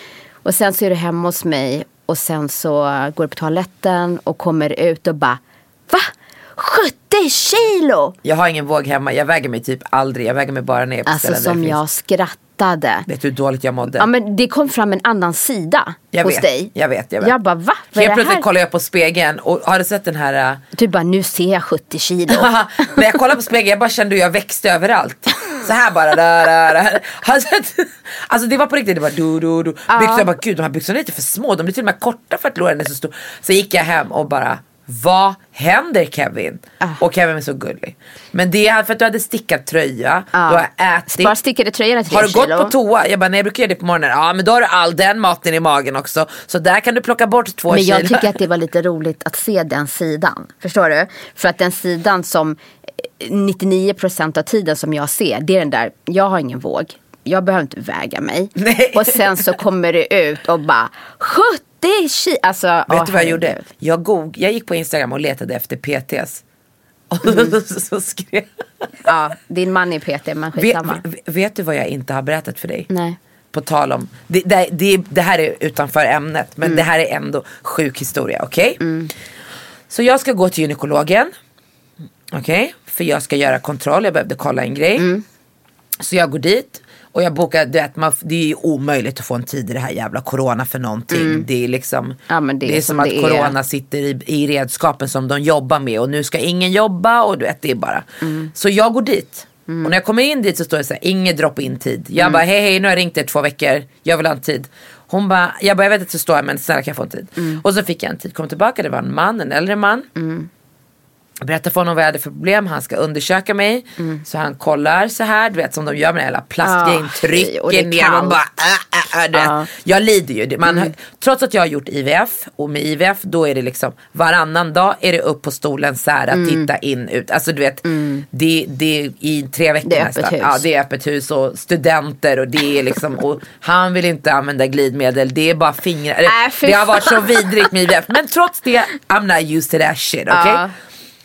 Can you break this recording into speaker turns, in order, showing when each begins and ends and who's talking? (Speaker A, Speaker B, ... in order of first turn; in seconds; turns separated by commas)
Speaker A: 0.5-8.2, Speaker B: 8.2-11.8, Speaker A: 11.1-13.1, Speaker B: 13.1-14.1, Speaker A: 14.0-18.5, Speaker B: 16.1-17.3, Speaker B: 17.9-20.6, Speaker A: 20.8-23.0, Speaker B: 22.3-41.4, Speaker A: 29.9-30.3, Speaker A: 40.3-42.7, Speaker B: 42.1-48.3, Speaker A: 47.7-63.7, Speaker B: 58.6-59.4, Speaker B: 62.9-66.4, Speaker B: 67.1-68.5, Speaker A: 67.2-67.5, Speaker A: 69.0-71.0, Speaker B: 70.6-72.9, Speaker A: 72.9-73.2, Speaker B: 73.5-78.8, Speaker A: 78.8-79.1, Speaker B: 79.9-81.3, Speaker B: 82.3-85.1, Speaker A: 85.0-85.2, Speaker B: 86.0-110.1, Speaker A: 91.1-91.5, Speaker A: 92.3-93.5, Speaker A: 98.2-98.5, Speaker A: 102.2-102.4, Speaker A: 107.4-107.6, Speaker A: 110.2-110.5, Speaker B: 111.4-140.6, Speaker A: 114.0-114.2, Speaker A: 116.6-118.4, Speaker A: 119.3-119.7, Speaker A: 120.7-120.9, Speaker A: 126.3-126.7, Speaker A: 127.8-128.3, Speaker A: 129.8-130.6, Speaker A: 136.3-137.7, Speaker A: 140.3-140.7